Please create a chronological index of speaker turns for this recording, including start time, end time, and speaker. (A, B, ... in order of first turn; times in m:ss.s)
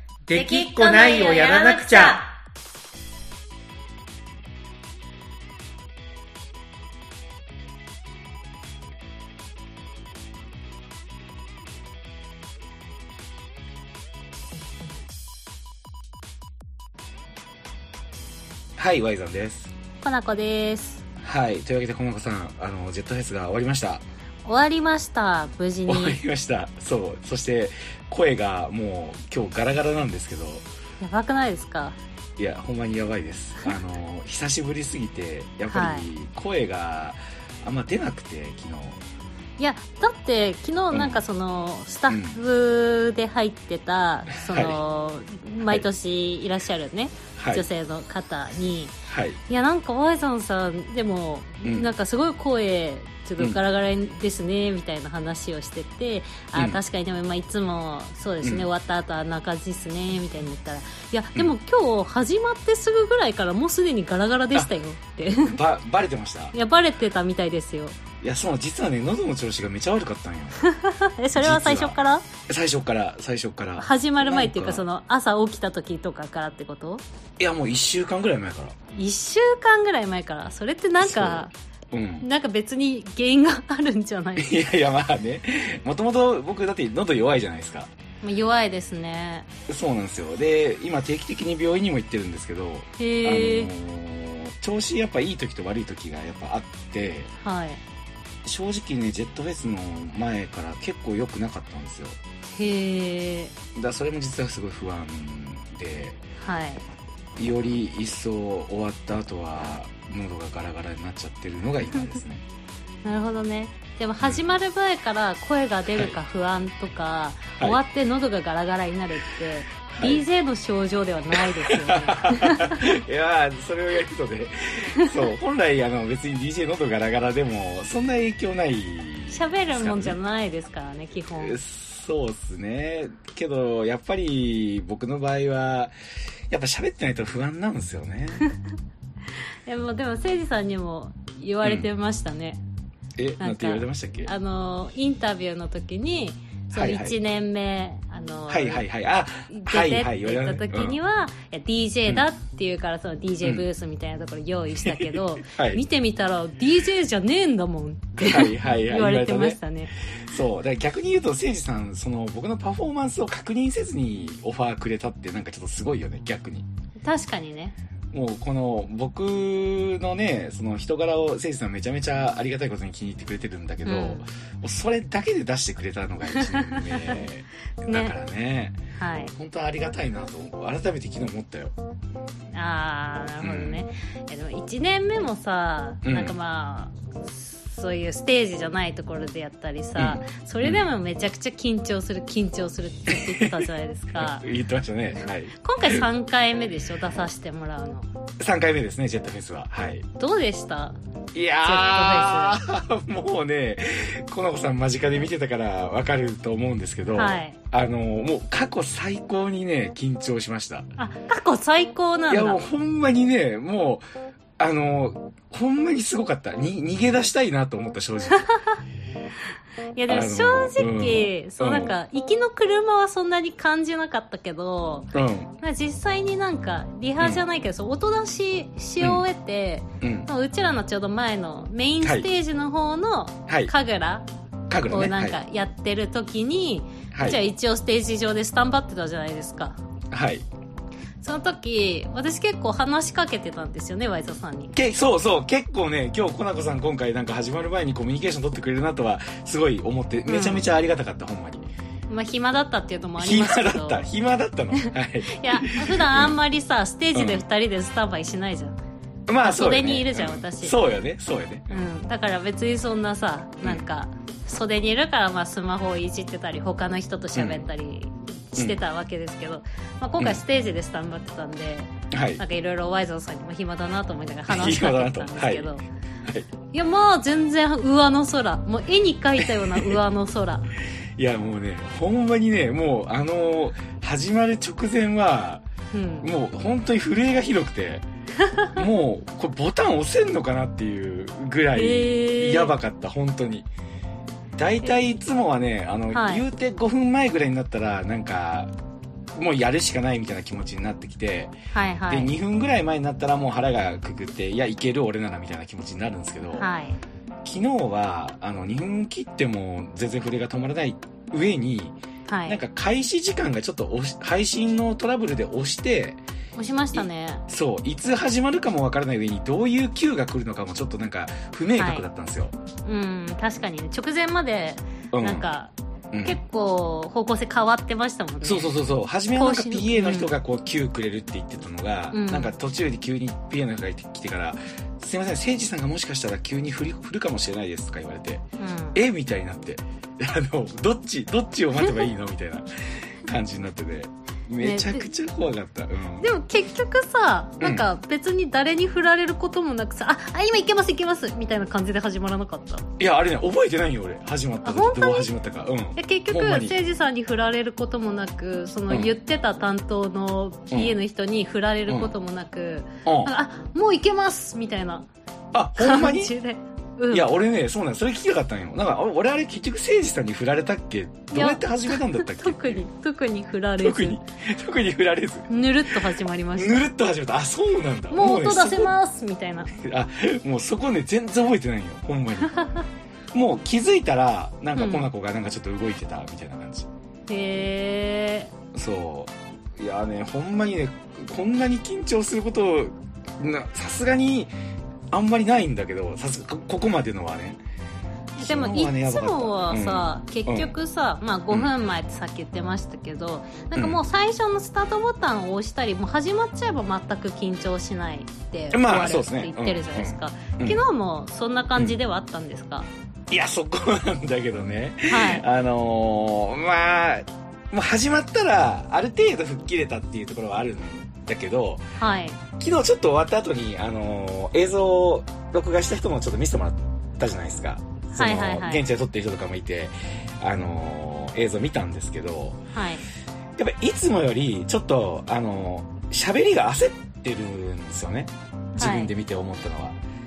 0:00.3-0:02.3 A
0:00.3-0:02.3 B
0:18.8-0:19.7 A
0:20.0-0:21.0 B
0:21.2-0:24.0 A
0:24.4-0:26.2 B
0:25.9-0:30.6 A
0:31.0-0:32.0 B
0:32.4-0:39.0 A
0:35.7-0:36.1 B
0:39.6-0:48.9 B
0:40.9-0:41.2 A
0:42.1-0:42.4 A
0:44.3-0:44.8 A
0:47.4-0:47.6 A
0:49.1-0:49.4 A
0:49.5-1:05.6 B
0:56.5-0:56.8 A
0:58.4-0:58.7 A
1:05.3-1:06.5 A
1:06.5-1:08.0 B
1:08.2-1:10.7 A
1:10.6-1:12.2 B
1:11.4-1:12.0 A
1:12.5-1:14.8 A
1:13.8-1:17.0 B
1:17.4-1:18.8 A
1:18.9-1:21.5 B
1:21.0-1:22.2 A
1:22.2-1:24.6 B
1:24.4-1:27.9 A
1:28.2-1:29.5 B
1:29.7-1:37.3 A
1:33.0-1:33.7 B
1:37.4-1:37.8 B
1:38.4-1:42.2 A
1:42.6-1:43.5 B
1:43.7-1:46.2 A
1:46.4-1:46.8 B
1:47.4-1:52.4 A
1:53.0-2:02.9 B
1:54.2-1:54.5 A
1:59.9-2:00.2 A
2:01.3-2:10.2 A
2:09.3-2:11.6 B
2:11.4-2:15.9 A
2:16.5-2:18.4 A
2:19.6-2:22.6 B
2:21.6-2:21.9 A
2:23.2-2:24.3 A
2:23.4-2:28.8 B
2:26.7-2:27.2 A
2:28.5-2:31.0 A
2:29.5-2:39.9 B
2:33.4-2:33.7 A
2:34.8-2:35.8 A
2:38.2-2:39.6 A
2:40.1-2:46.7 A
2:47.0-2:47.8 B
2:48.1-2:58.8 A
2:53.8-2:54.2 B
2:56.3-2:57.2 B
2:57.9-2:58.1 B
2:58.9-2:59.3 B
2:59.4-3:01.7 A
3:02.5-3:14.5 B
3:03.4-3:03.8 A
3:06.0-3:06.4 A
3:10.0-3:10.8 A
3:13.1-3:13.5 A
3:14.1-3:16.0 A
3:15.6-3:18.1 B
3:18.4-3:20.1 A
3:20.2-3:21.0 B
3:21.3-3:30.9 A
3:21.6-3:22.6 B
3:27.1-3:27.6 B
3:31.0-3:32.6 B
3:32.3-3:34.0 A
3:34.6-3:38.4 A
3:38.5-3:38.8 B
3:40.0-3:54.2 B
3:40.1-3:41.9 A
3:45.1-3:45.5 A
3:50.0-3:50.3 A
3:52.0-3:52.3 A
3:54.7-3:55.4 A
3:54.9-3:59.8 B
3:57.1-3:57.4 A
4:00.1-4:00.4 A
4:01.2-4:04.7 B
4:04.7-4:11.6 A
4:10.2-4:10.7 B
4:12.1-4:14.1 B
4:13.2-4:16.4 A
4:14.7-4:18.8 B
4:17.1-4:17.4 A
4:19.3-4:21.8 A
4:19.4-4:20.8 B
4:21.7-4:35.8 B
4:27.3-4:27.6 A
4:32.1-4:32.4 A
4:34.5-4:36.5 A
4:36.7-4:40.7 B
4:39.4-4:40.0 A
4:41.2-4:45.6 A
4:45.9-4:46.3 B
4:46.2-4:48.0 A
4:48.4-4:48.7 B
4:48.7-4:53.7 A
4:51.7-4:52.7 B
4:54.6-4:58.7 A
4:56.1-4:56.4 B
4:59.4-5:01.5 A
5:01.7-5:02.3 B
5:02.1-5:06.7 A
5:06.6-5:07.0 B
5:07.4-5:16.2 A
5:12.3-5:12.6 B
5:16.6-5:17.4 B
5:16.9-5:22.5 A
5:21.8-5:22.0 B
5:22.8-5:25.7 B
5:25.1-5:25.5 A
5:26.1-5:26.4 A
5:26.2-5:30.3 B
5:28.4-5:38.4 A
5:32.1-5:32.5 B
5:38.6-5:39.0 B
5:38.9-5:46.3 A
5:41.8-5:42.0 B
5:44.6-5:45.1 B
5:46.2-5:52.8 B
5:47.6-5:47.8 A
5:53.0-5:56.7 A
5:54.6-5:55.3 B
5:56.0-6:05.1 B
5:58.9-5:59.1 A
6:03.0-6:03.3 A
6:05.5-6:06.3 A
6:05.8-6:07.3 B
6:07.1-6:12.8 A
6:11.3-6:14.2 B
6:13.8-6:15.5 A
6:15.5-6:16.9 B
6:16.6-6:18.9 A
6:18.1-6:19.8 B
6:19.7-6:22.7 A
6:22.4-6:22.8 B
6:23.3-6:26.9 A
6:24.8-6:25.1 B
6:27.3-6:28.5 B
6:28.7-6:34.5 A
6:35.1-6:37.6 A
6:38.4-6:40.7 A
6:38.4-6:52.9 B
6:43.7-6:44.0 A
6:48.7-6:50.8 A
6:53.3-7:01.8 A
6:55.1-6:55.4 B
7:02.0-7:02.4 B
7:02.6-7:12.6 A
7:08.1-7:08.8 B
7:12.7-7:13.0 B
7:13.6-7:20.0 A
7:18.8-7:19.1 B